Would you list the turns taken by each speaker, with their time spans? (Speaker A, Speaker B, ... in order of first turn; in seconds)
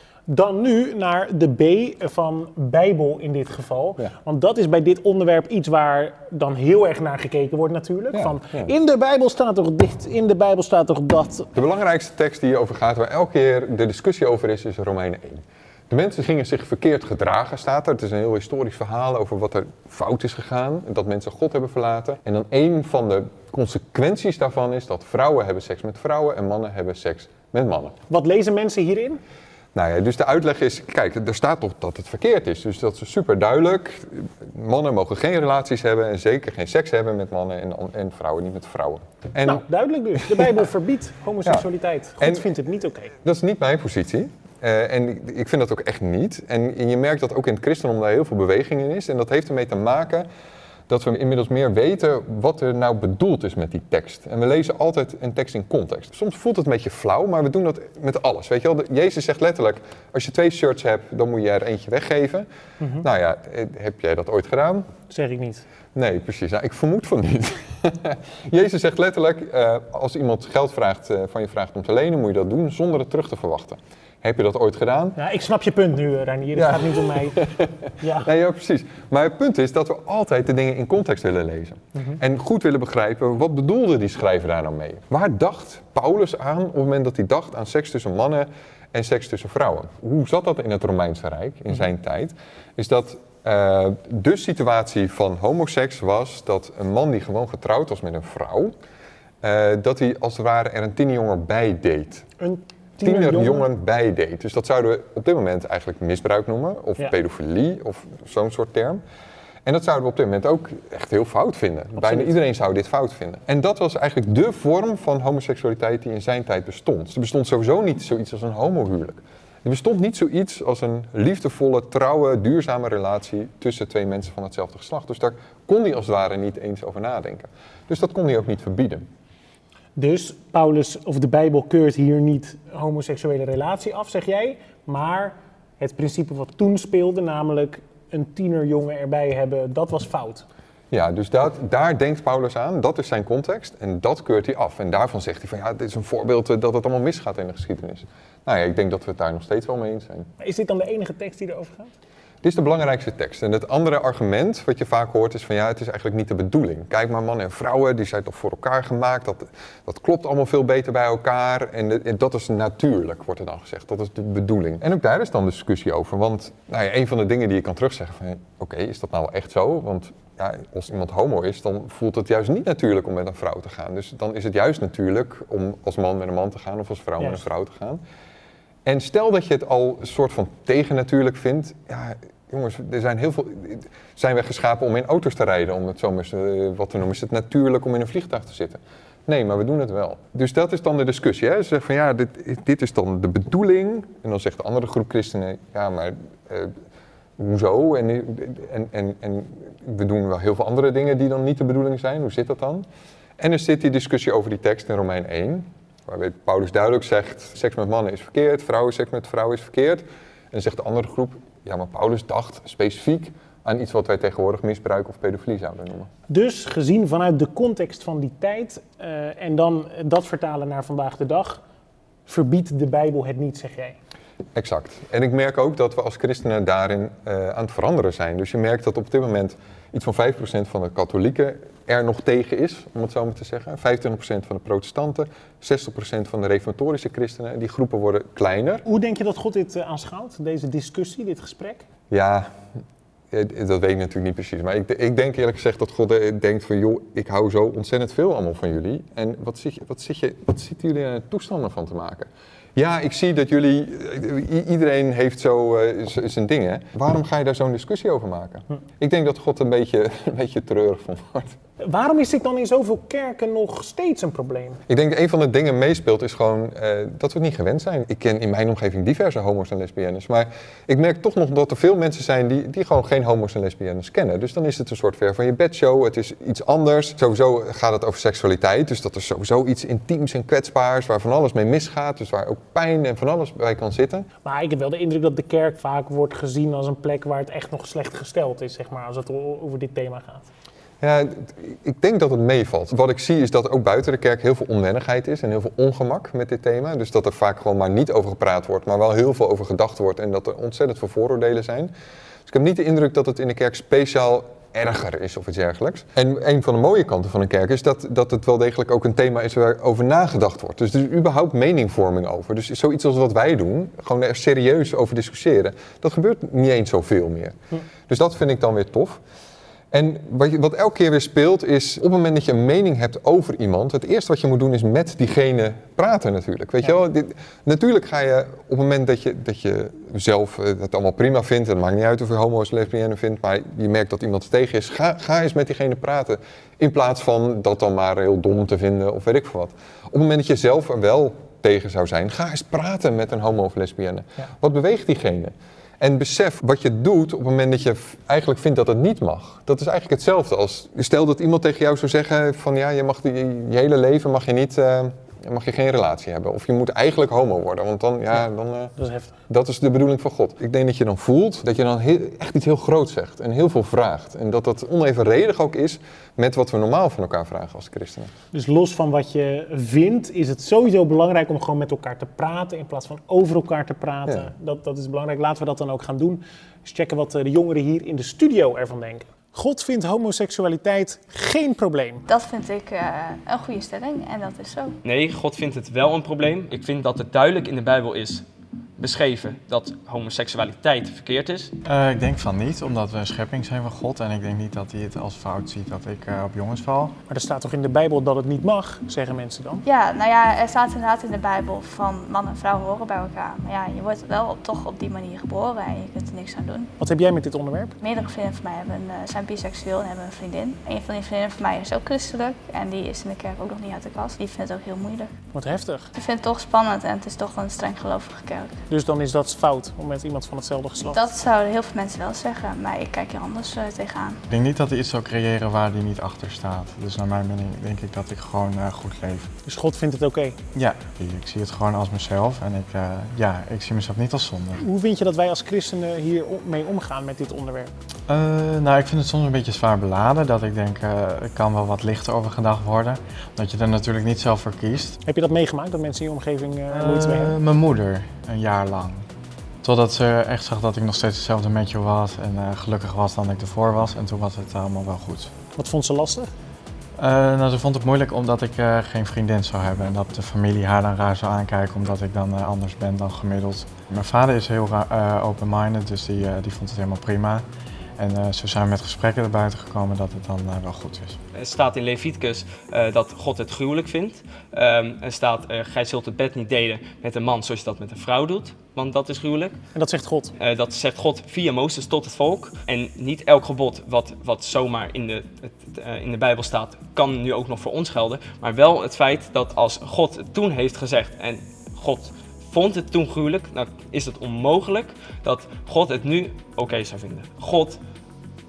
Speaker A: 0.3-11.5, 28.1-29.2, 39.5-43.1, 62.8-63.0, 65.1-65.6, 75.2-77.4, 78.0-78.3, 102.4-103.7, 112.0-112.3, 130.0-140.4, 150.4-151.9, 216.3-221.6, 222.3-224.0, 238.9-241.8, 261.8-264.8, 284.4-290.5, 359.0-359.3, 368.5-382.2, 397.3-399.8, 407.0-408.0, 415.5-416.1, 418.9-421.2, 429.6-430.6, 434.8-437.9, 445.2-447.5, 455.8-456.5, 479.9-480.5
Speaker B: 8.1-8.7, 11.5-27.9, 29.8-39.6, 42.2-42.5, 43.2-50.3, 50.9-62.5, 63.0-64.9, 65.9-75.2, 76.5-98.7, 99.4-102.3, 103.0-109.0, 109.7-129.1, 140.9-150.3, 152.4-178.0, 178.8-196.7, 197.4-202.9, 203.4-216.1, 224.6-238.8, 242.1-242.5, 243.3-261.6, 264.9-284.3, 291.0-301.9, 302.5-317.6, 318.1-319.2, 319.9-358.9, 359.5-368.3
Speaker C: 382.3-385.0, 399.8-406.9, 408.0-415.3, 416.1-418.7, 421.1-424.4
Speaker D: 385.0-388.4, 389.0-391.7, 471.6-479.8, 480.6-498.0
Speaker E: 391.8-397.1, 424.5-429.5, 430.7-434.8, 438.3-445.2, 446.9-449.3, 449.8-455.5, 457.2-467.6, 468.2-471.4